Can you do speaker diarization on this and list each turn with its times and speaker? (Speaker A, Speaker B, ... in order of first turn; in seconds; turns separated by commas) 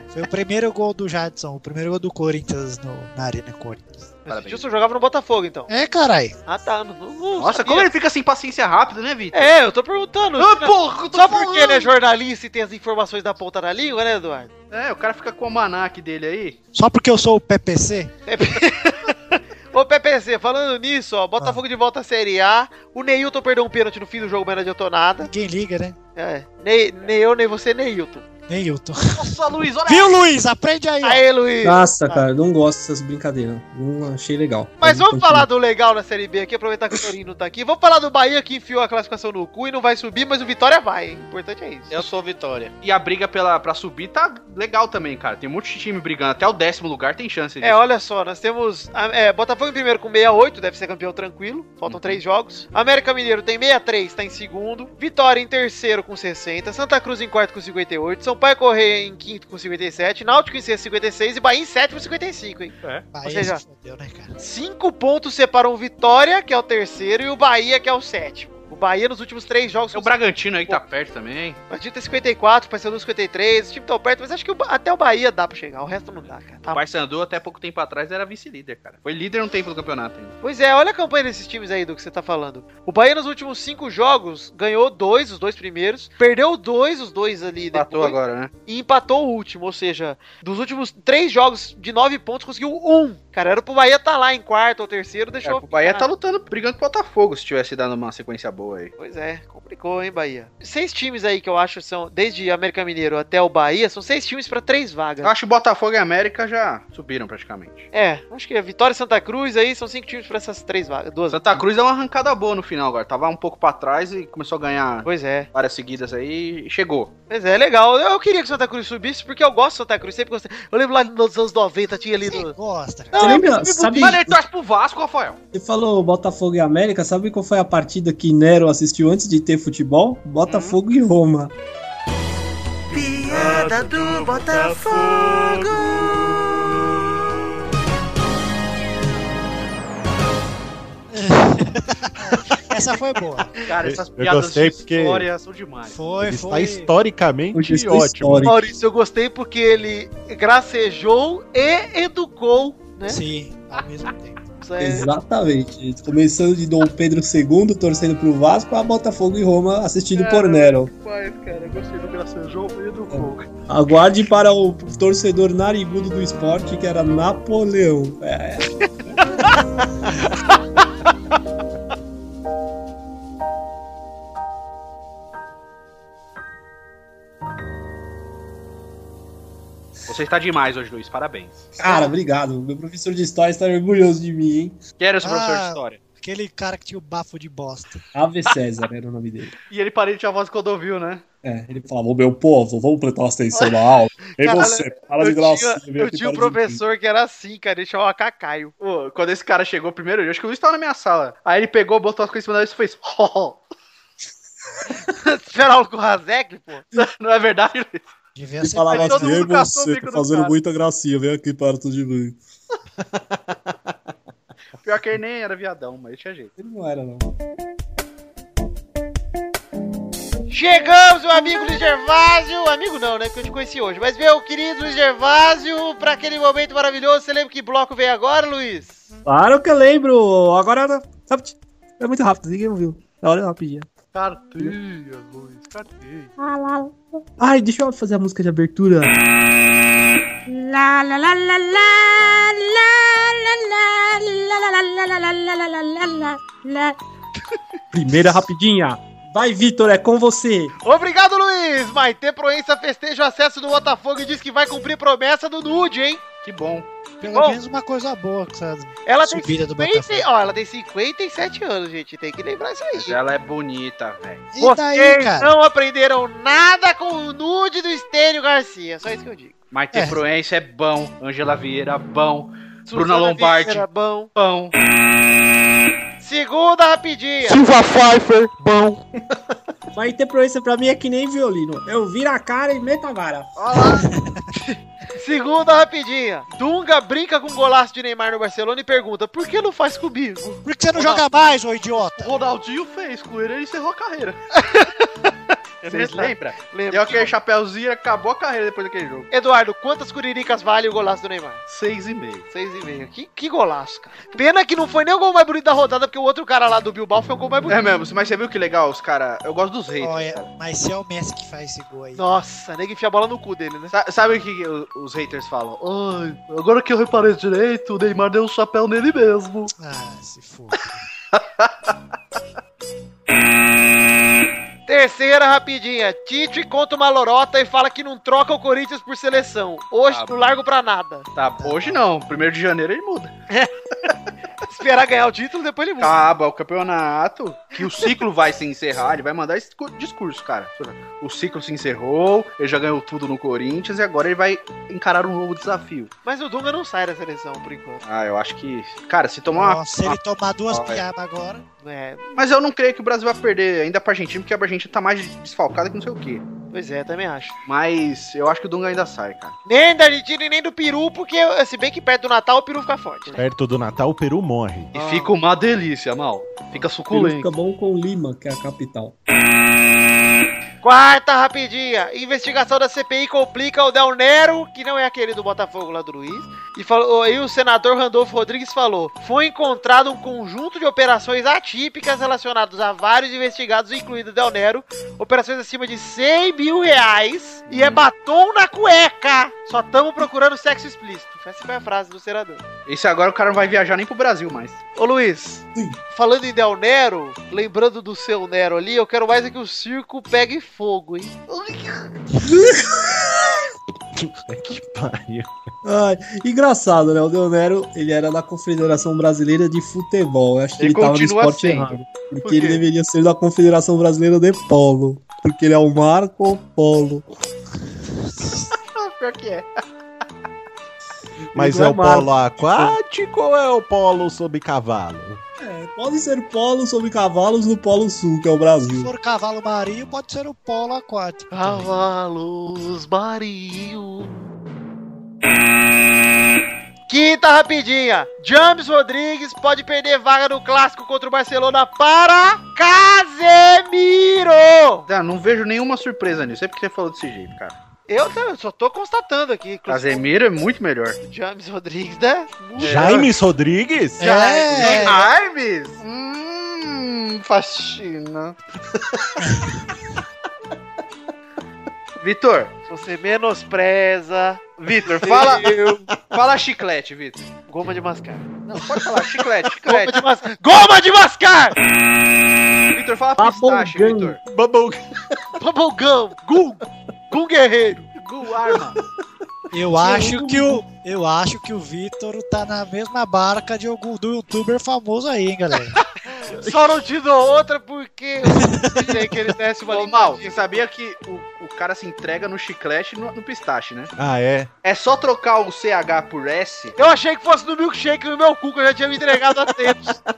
Speaker A: 0.1-4.1, Speaker B: 4.3-5.7, Speaker C: 4.3-4.7, Speaker A: 5.7-6.4, Speaker B: 6.5-7.9, Speaker C: 7.4-9.5, Speaker B: 9.3-14.5, Speaker C: 10.4-11.9, Speaker C: 14.7-16.6, Speaker A: 16.8-18.1, Speaker B: 18.3-25.3, Speaker A: 25.2-26.0, Speaker B: 26.2-28.2, Speaker A: 28.5-31.2, Speaker C: 29.2-30.2, Speaker B: 31.0-32.2, Speaker D: 31.6-35.5, Speaker B: 34.8-42.0, Speaker C: 41.9-47.8, Speaker B: 47.6-63.6, Speaker C: 51.9-52.2, Speaker A: 63.1-64.3, Speaker B: 64.4-70.1, Speaker C: 69.9-71.6, Speaker B: 71.7-76.8, Speaker C: 76.7-80.3, Speaker B: 80.4-96.1, Speaker C: 87.7-88.5, Speaker C: 95.5-98.9, Speaker B: 99.0-105.3, Speaker C: 105.2-107.9, Speaker B: 107.9-111.6, Speaker C: 111.3-117.1, Speaker B: 115.0-115.5, Speaker B: 117.3-122.5, Speaker A: 122.2-123.3, Speaker B: 123.1-124.2, Speaker D: 123.2-124.4, Speaker C: 123.9-125.4, Speaker D: 125.5-131.5, Speaker C: 130.5-130.8, Speaker E: 132.9-136.2, Speaker C: 133.4-134.3, Speaker B: 133.5-134.3, Speaker A: 141.1-143.6, Speaker C: 143.7-146.0, Speaker F: 143.8-145.3, Speaker A: 145.9-146.9, Speaker F: 146.2-148.5, Speaker D: 147.5-148.7, Speaker B: 148.4-153.2, Speaker A: 153.1-154.4, Speaker B: 154.6-155.1, Speaker D: 154.8-160.9, Speaker C: 160.1-163.5, Speaker D: 163.1-168.7, Speaker C: 180.1-181.7, Speaker D: 181.8-184.8, Speaker C: 185.0-186.0, Speaker A: 185.2-188.0, Speaker D: 188.2-189.5, Speaker C: 189.7-191.2, Speaker D: 191.4-196.8, Speaker B: 194.4-198.7, Speaker C: 198.8-203.6, Speaker B: 205.1-206.8, Speaker C: 206.9-208.1, Speaker A: 208.4-209.5, Speaker D: 208.6-212.4, Speaker C: 208.9-210.5, Speaker C: 214.8-216.5, Speaker D: 216.6-217.3, Speaker B: 220.5-229.0, Speaker D: 229.2-233.9, Speaker C: 234.1-236.3, Speaker G: 236.4-236.9, Speaker D: 237.4-239.2, Speaker G: 240.5-246.9, Speaker D: 247.9-250.7, Speaker B: 250.8-256.2, Speaker C: 256.4-256.9, Speaker A: 257.2-260.3, Speaker B: 257.3-257.6, Speaker B: 259.1-263.2, Speaker C: 262.9-264.4, Speaker A: 264.5-265.5, Speaker B: 264.6-269.5, Speaker C: 269.7-274.7, Speaker A: 269.9-270.2, Speaker B: 272.9-274.3, Speaker B: 276.2-277.6, Speaker D: 279.9-283.5, Speaker C: 283.6-284.1, Speaker A: 284.0-284.4, Speaker B: 285.1-290.6, Speaker A: 290.6-292.4, Speaker C: 292.2-294.4, Speaker B: 294.5-295.1, Speaker C: 295.8-299.3, Speaker B: 295.9-297.3, Speaker B: 299.3-301.6, Speaker C: 301.7-302.5, Speaker B: 302.5-307.8, Speaker C: 307.7-310.5, Speaker A: 310.0-312.4, Speaker B: 312.2-313.9, Speaker C: 313.9-319.7, Speaker A: 319.8-321.0, Speaker C: 321.3-321.9, Speaker B: 324.9-331.3, Speaker C: 331.4-333.3, Speaker A: 331.6-332.0, Speaker B: 334.6-336.1, Speaker C: 336.0-346.1, Speaker B: 346.2-348.0, Speaker C: 348.0-350.2, Speaker A: 349.5-351.6, Speaker C: 350.7-351.0, Speaker B: 351.8-352.2, Speaker C: 352.3-356.4, Speaker B: 356.7-357.6, Speaker C: 357.7-359.6, Speaker B: 359.7-363.4, Speaker F: 363.4-364.9, Speaker B: 364.9-365.3, Speaker C: 364.9-367.5, Speaker D: 367.1-369.2, Speaker B: 370.8-392.6, Speaker C: 387.7-388.0, Speaker C: 392.9-394.8, Speaker B: 395.0-401.3, Speaker C: 401.5-402.1, Speaker D: 402.4-403.3, Speaker F: 404.2-405.5, Speaker D: 405.8-417.2, Speaker C: 410.8-411.9, Speaker C: 412.4-412.8, Speaker A: 418.4-418.7, Speaker C: 418.9-419.7, Speaker D: 421.5-423.0, Speaker F: 421.6-425.4, Speaker D: 425.6-429.1, Speaker A: 429.0-431.9, Speaker B: 431.5-434.3, Speaker B: 437.1-445.1, Speaker C: 445.1-447.8, Speaker B: 448.1-450.3, Speaker C: 449.9-451.2, Speaker B: 451.2-453.2, Speaker C: 452.8-453.2, Speaker F: 452.8-454.3, Speaker A: 453.0-453.3, Speaker A: 454.2-455.2, Speaker B: 454.2-455.3, Speaker C: 454.8-458.6, Speaker C: 462.2-462.7, Speaker B: 462.9-466.1, Speaker C: 465.2-465.7, Speaker C: 466.3-467.5, Speaker B: 467.7-468.5, Speaker C: 468.7-470.2, Speaker B: 469.9-471.8, Speaker C: 472.9-474.4, Speaker D: 473.4-474.4, Speaker F: 474.5-475.0, Speaker B: 475.6-478.1, Speaker C: 478.2-479.0, Speaker A: 479.7-486.0, Speaker D: 480.0-480.8, Speaker B: 486.3-490.9, Speaker A: 488.6-489.1, Speaker C: 489.9-494.1, Speaker F: 494.2-494.7, Speaker C: 494.8-497.0, Speaker B: 497.0-500.2